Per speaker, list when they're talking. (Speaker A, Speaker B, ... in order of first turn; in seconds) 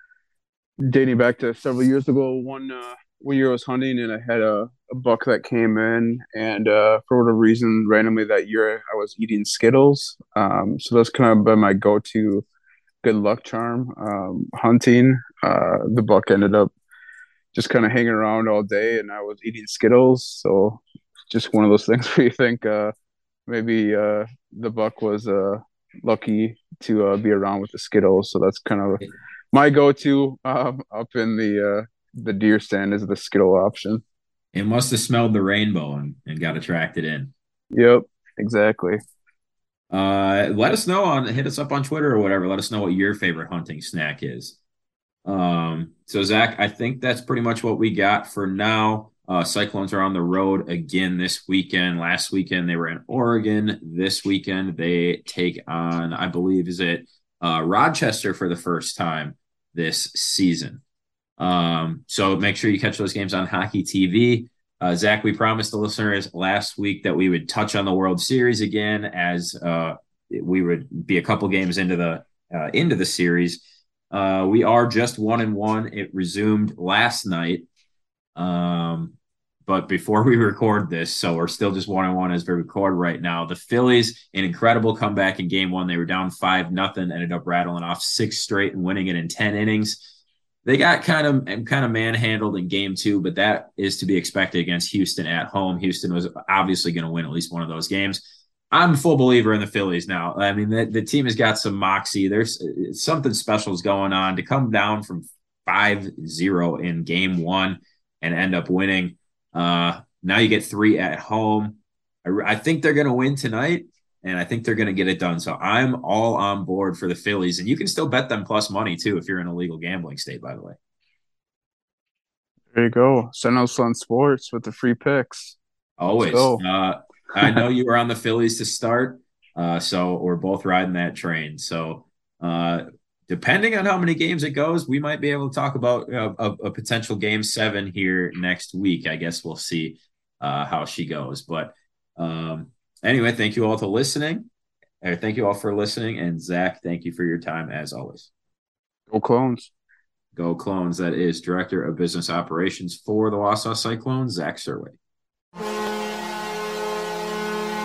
Speaker A: 0.9-12.4, 13.0-16.7, 17.5-22.9, 23.5-34.0, 37.7-39.0, 122.7-125.6, 126.2-126.6, 149.1-149.7
Speaker B: 34.5-37.3, 39.9-44.6, 45.2-60.8, 61.4-77.7, 78.4-90.0, 90.7-120.8, 126.0-144.5, 145.0-148.3, 150.3-155.0